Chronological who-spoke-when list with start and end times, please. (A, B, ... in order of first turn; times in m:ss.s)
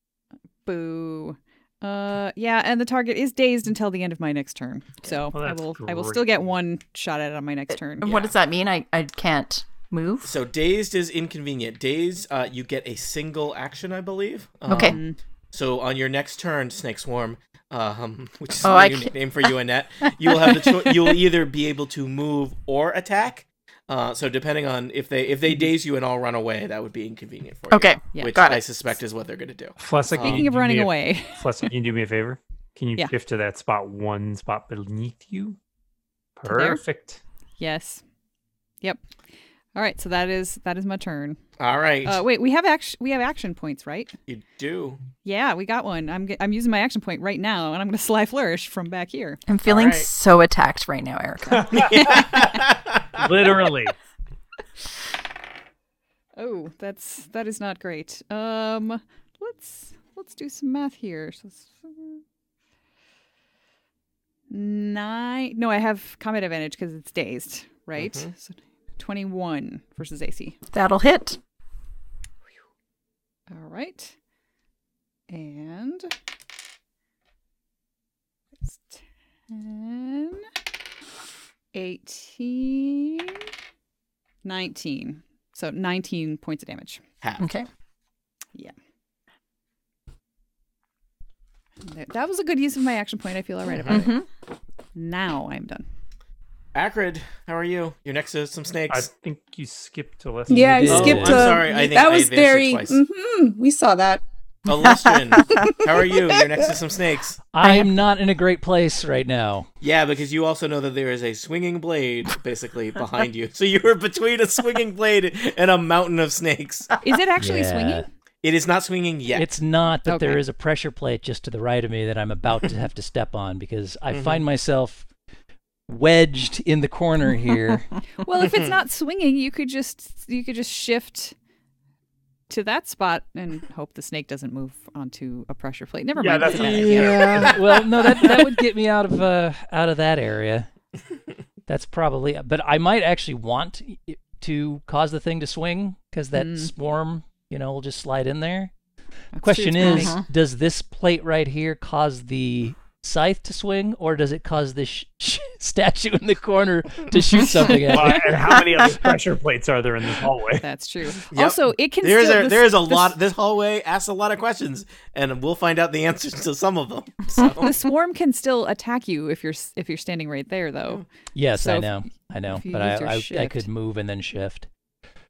0:00.7-0:08.2 A
0:05.3-0:06.3 B
0:08.0-0:10.4 C
0:10.2-0:15.0 D
0:14.7-0:15.0 C
0:14.7-0:15.2 A
0:15.5-0:30.5 D
0:18.6-0:19.5 C
0:20.2-0:21.2 C
0:27.7-0:28.6 C
0:29.8-0:35.6 B
0:30.2-0:31.4 A
0:36.4-0:37.2 B
0:36.5-0:36.8 A
0:37.6-0:38.0 A
0:39.8-0:41.4 A
0:41.6-0:42.2 D
0:42.0-0:44.1 A
0:44.3-0:45.0 D
0:45.2-0:49.4 A
0:49.5-0:51.7 C
0:49.6-0:50.1 D
0:51.6-0:52.4 B
0:51.8-0:53.3 D
0:51.8-0:52.3 A
0:53.2-0:54.0 B
0:56.4-1:02.2 A
1:04.5-1:10.6 A
1:08.0-1:08.3 D
1:10.7-1:11.4 C
1:13.5-1:14.2 A
1:15.3-1:16.1 A
1:18.6-1:20.5 A
1:21.7-1:23.4 A
1:24.4-1:27.0 A
1:27.2-1:27.5 D
1:27.4-1:27.7 C
1:31.8-1:34.1 A
1:33.7-1:34.1 D
1:33.9-1:34.3 C
1:35.0-1:35.8 A
1:36.7-1:39.1 D
1:38.9-1:41.3 B
1:40.5-1:44.2 E
1:40.8-1:41.6 F
1:40.9-1:43.0 D
1:44.7-1:47.4 D
1:45.4-1:46.6 E
1:47.5-1:49.7 F
1:49.8-1:57.0 D
1:57.0-1:58.1 A
1:57.4-1:58.1 F
1:58.4-1:59.5 D
1:59.3-2:05.1 F
2:00.1-2:00.4 A
2:04.1-2:04.4 D
2:05.9-2:07.9 F
2:08.2-2:11.4 A
2:12.5-2:17.6 A
2:16.2-2:17.6 B
2:16.6-2:20.7 F
2:16.7-2:17.6 D
2:18.2-2:18.5 A
2:21.7-2:28.7 F
2:26.3-2:26.7 A
2:29.3-2:30.2 A
2:29.4-2:39.1 F
2:29.8-2:30.2 C
2:37.9-2:40.7 B
2:40.6-2:43.2 A
2:41.3-2:47.7 D
2:47.6-2:53.7 A
2:51.3-2:54.7 F